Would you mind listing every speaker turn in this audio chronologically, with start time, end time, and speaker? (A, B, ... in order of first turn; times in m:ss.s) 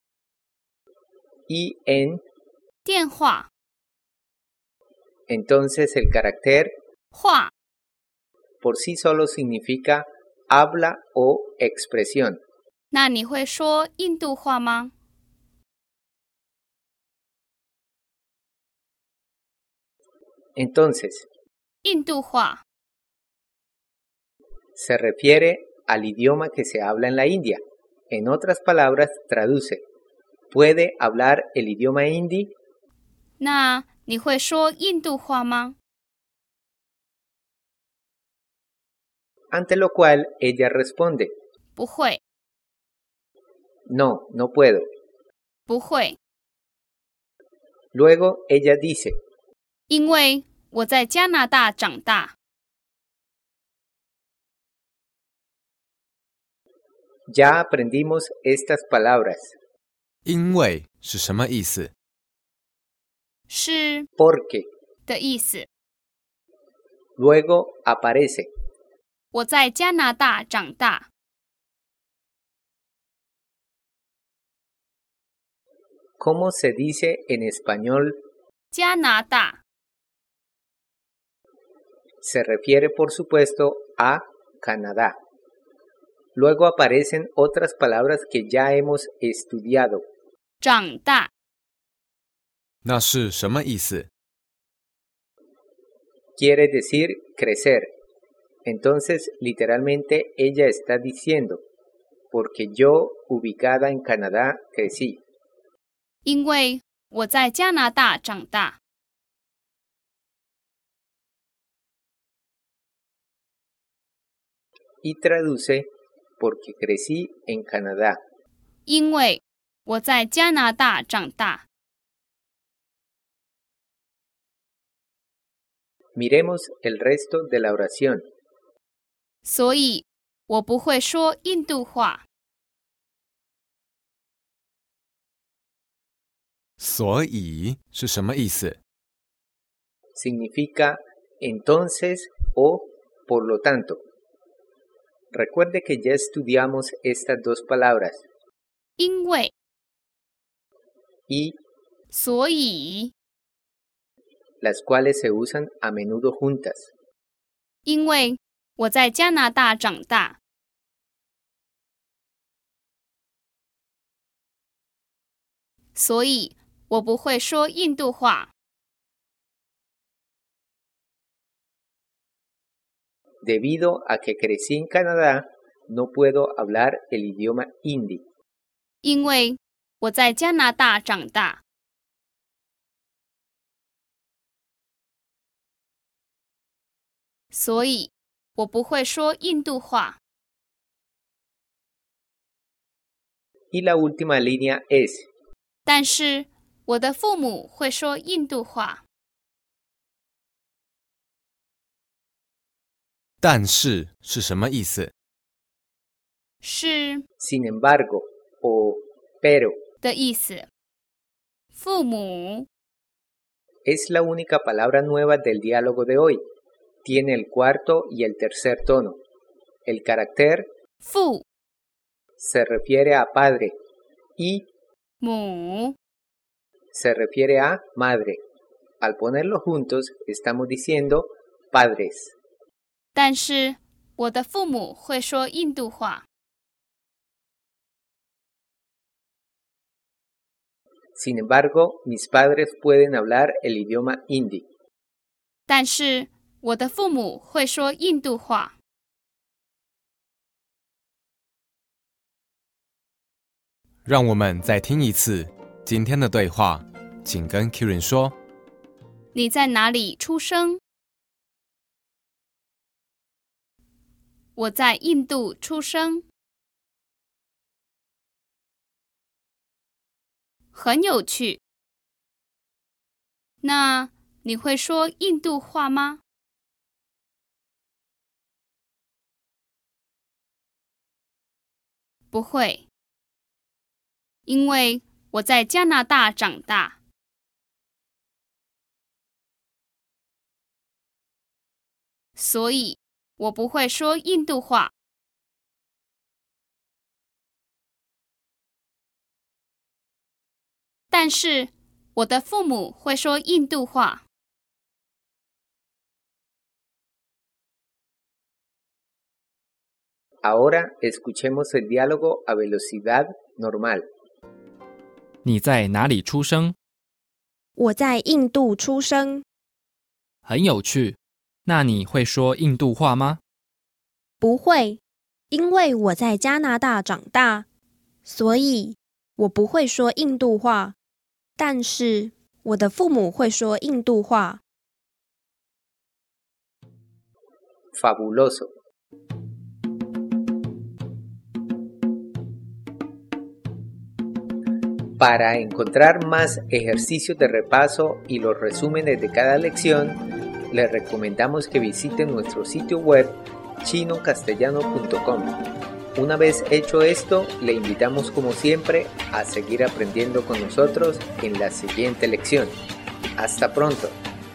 0:01.5-0:02.2 A
0:02.8-0:03.5 B
0:05.3-0:06.7 A
0:07.1-0:07.5 B
0:08.6-0:12.4 A
0:12.9-0:14.9 B
0:20.6-0:21.2 A
0:21.8-0:22.6 B
0:24.8-0:29.8 A
0:30.5-0:32.5 A
0:33.4-0:35.8 B
0:39.5-0:41.3 A
0:41.8-0:42.2 B
0:43.9-0:44.8 A
0:45.7-0:46.2 B
0:47.9-0:49.2 A
0:49.9-0:52.3 B
0:57.3-0:59.5 A
1:00.2-1:01.9 C
1:03.5-1:04.0 B
1:04.2-1:04.6 A
1:05.0-1:05.6 B
1:07.2-1:08.5 A
1:09.3-1:11.1 B
1:16.2-1:18.2 A
1:18.7-1:19.6 B
1:22.2-1:25.2 A
1:26.3-1:30.0 A
1:30.6-1:31.3 B
1:32.8-1:34.1 C
1:36.4-1:37.9 A
1:38.6-1:41.6 A
1:42.3-1:45.2 A
1:46.2-1:48.8 B
1:55.0-1:55.9 A
1:56.4-1:58.2 A
1:58.8-2:01.6 B
2:06.2-2:08.2 A
2:09.4-2:12.2 B
2:16.8-2:18.8 C
2:20.1-2:24.0 A
2:25.3-2:28.2 A
2:29.0-2:29.5 B
2:31.3-2:31.6 A
2:32.1-2:33.1 B
2:34.6-2:36.9 A
2:37.8-2:40.4 B
2:45.9-2:48.5 B
2:53.4-2:58.2 A
2:59.0-3:01.6 B
3:07.5-3:10.2 B
3:13.7-3:15.3 A
3:15.8-3:19.0 B
3:23.4-3:25.1 C
3:26.6-3:27.2 B
3:27.4-3:29.8 A
3:30.0-3:30.7 B
3:31.7-3:32.7 B
3:33.8-3:36.4 A
3:37.0-3:39.2 A
3:39.8-3:40.7 A
3:41.0-3:41.4 B
3:42.4-3:43.7 A
3:44.4-3:44.7 A
3:45.2-3:46.0 B
3:46.9-3:48.4 A
3:49.0-3:52.3 A
3:53.1-3:56.2 B
4:01.2-4:04.6 A
4:05.7-4:08.7 B
4:14.0-4:18.3 C
4:19.3-4:20.8 B
4:24.6-4:26.2 B
4:30.7-4:31.6 B
4:33.6-4:36.2 B
4:42.3-4:42.8 B
4:44.4-4:47.0 B
4:52.4-4:54.9 B
5:01.1-5:04.2 B
5:10.4-5:14.0 A
5:15.4-5:16.8 D
5:17.8-5:19.4 E
5:20.4-5:23.4 D
5:24.4-5:25.0 E
5:25.5-5:27.6 E
5:28.2-5:31.0 E
5:31.6-5:34.6 E
5:38.0-5:38.7 A
5:45.2-5:55.6 A
5:56.1-6:02.8 A
6:03.4-6:04.2 A